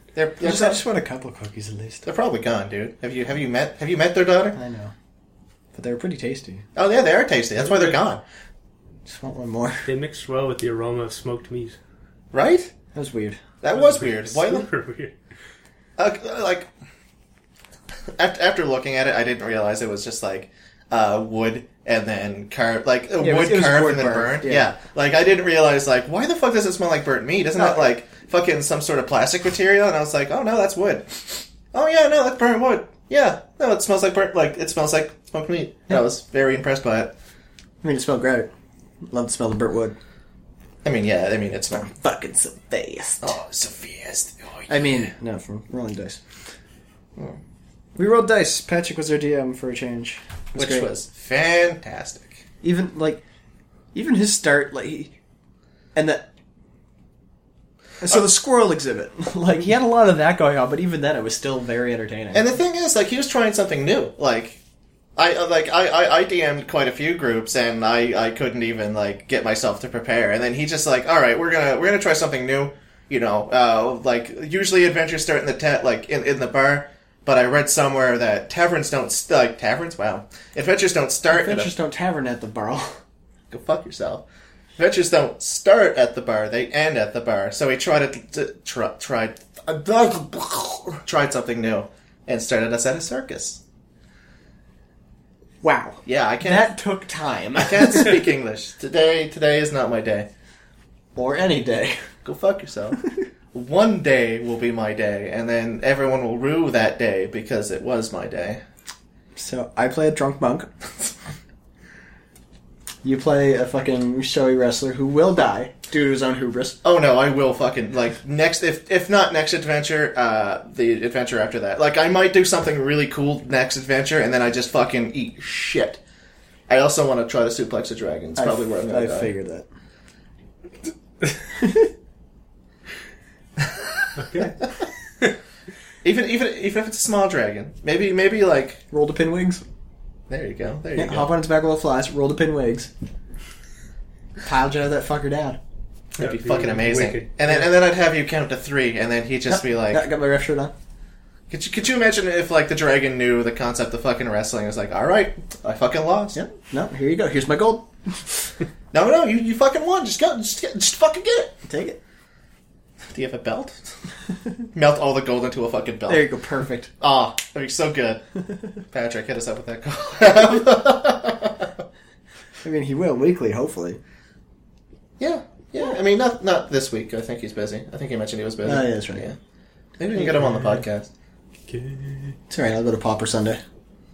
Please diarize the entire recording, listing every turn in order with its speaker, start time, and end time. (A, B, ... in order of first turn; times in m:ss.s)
0:00.1-0:00.8 A
0:00.4-0:02.0 B
0:02.0-0:04.6 A
0:04.5-0:04.9 B
0:05.7-0:06.6 B
0:06.8-0:08.2 A
0:07.6-0:08.0 C
0:09.0-0:09.8 B
0:09.8-0:11.8 C
0:12.3-0:12.7 A
0:12.9-0:13.4 B
0:13.6-0:14.7 A
0:13.7-0:15.1 C
0:16.0-0:16.7 A
0:18.2-0:37.1 A
0:23.2-0:24.7 B
0:27.6-0:27.8 B
0:37.8-0:38.5 B
0:39.1-0:40.0 B
0:40.8-0:41.9 A
0:41.8-0:43.4 B
0:43.2-0:45.1 A
0:44.7-0:46.2 B
0:48.0-0:50.9 B
0:50.5-0:52.4 A
0:52.6-0:53.2 B
0:53.9-0:55.1 B
0:55.9-0:56.2 B
0:58.0-1:02.5 B
1:02.3-1:04.6 A
1:05.2-1:21.7 A
1:21.3-1:23.0 B
1:23.5-1:24.2 A
1:24.8-1:33.6 A
1:35.6-1:38.2 B
1:36.0-1:36.7 A
1:37.6-1:40.3 A
1:41.1-1:42.0 B
1:42.2-1:43.0 A
1:43.5-1:48.6 A
1:49.4-1:50.7 B
1:53.0-1:56.8 B
1:56.8-2:06.0 A
2:06.7-2:09.3 A
2:08.4-2:09.6 B
2:11.6-2:11.9 B
2:13.6-2:14.0 A
2:14.2-2:14.6 C
2:16.0-2:18.8 A
2:18.9-2:19.6 B
2:20.3-2:21.3 A
2:20.9-2:22.9 B
2:24.4-2:25.6 B
2:26.2-2:30.0 A
2:26.2-2:27.6 C
2:29.5-2:30.7 B
2:31.5-2:36.4 A
2:36.3-2:38.5 B
2:38.9-2:41.6 A
2:41.7-2:42.0 B
2:43.1-2:43.8 A
2:44.7-2:46.3 A
2:46.1-2:46.9 B
2:47.0-2:48.2 A
2:48.9-2:51.7 A
2:52.6-2:54.0 B
2:55.2-2:59.4 A
2:58.6-2:59.3 B
3:00.0-3:01.1 A
3:00.3-3:00.8 C
3:01.7-3:02.4 C
3:02.5-3:03.6 B